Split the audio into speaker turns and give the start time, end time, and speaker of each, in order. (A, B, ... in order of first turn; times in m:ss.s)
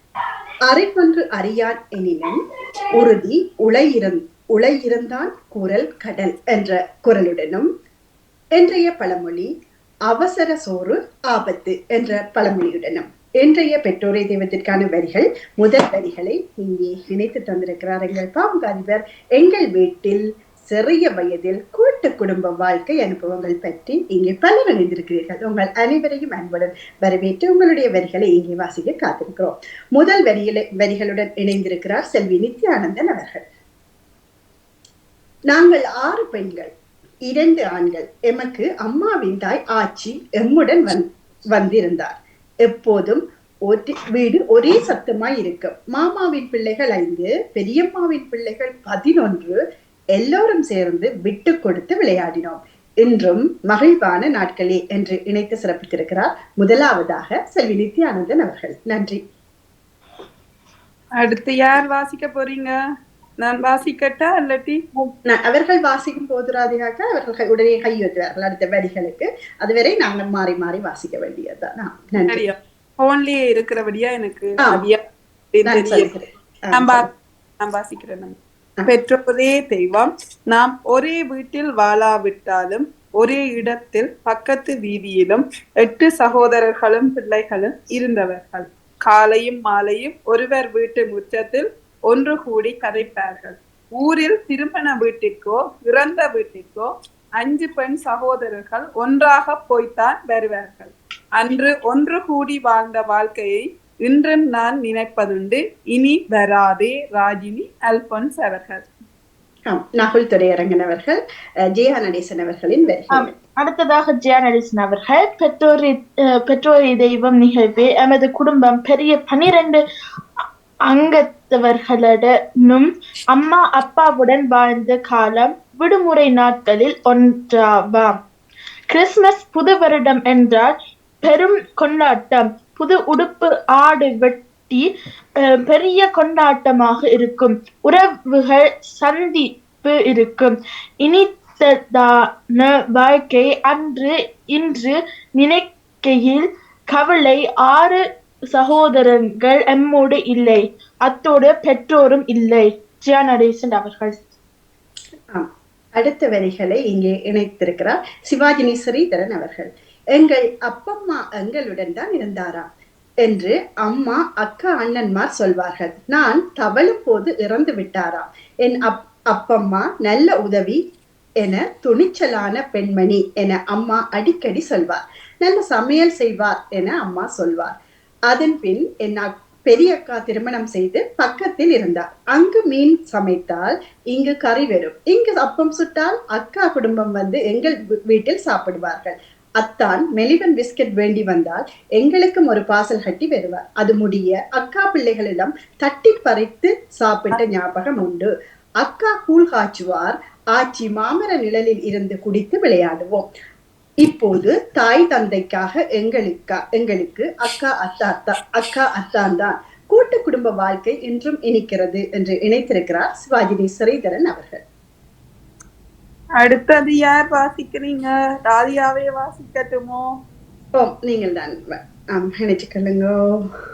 0:00.7-0:02.4 A
0:02.9-0:07.7 A
0:08.5-0:09.5 A
0:10.1-0:33.4 A
0:35.5-0:36.7 A
0:37.3-0:49.6 A
0:50.1-0:59.2 A
1:01.2-1:02.7 B
1:03.4-1:04.8 B
1:05.3-1:12.4 A
1:12.3-1:15.0 B
1:15.5-1:16.1 B
1:15.6-1:17.1 A
1:16.7-1:17.1 B
1:17.6-1:48.8 B
1:49.7-1:51.2 A
1:51.7-1:53.3 A
1:53.1-1:59.8 C
2:00.9-2:08.2 C
2:08.9-2:14.9 C
2:15.4-2:28.0 C
2:28.5-2:34.2 C
2:35.3-2:42.7 A
2:43.2-2:50.8 A
2:51.4-2:57.7 A
2:58.3-3:18.3 A
3:18.8-3:23.3 A
3:24.0-3:34.6 A
3:36.4-3:40.0 B
3:40.7-3:43.2 A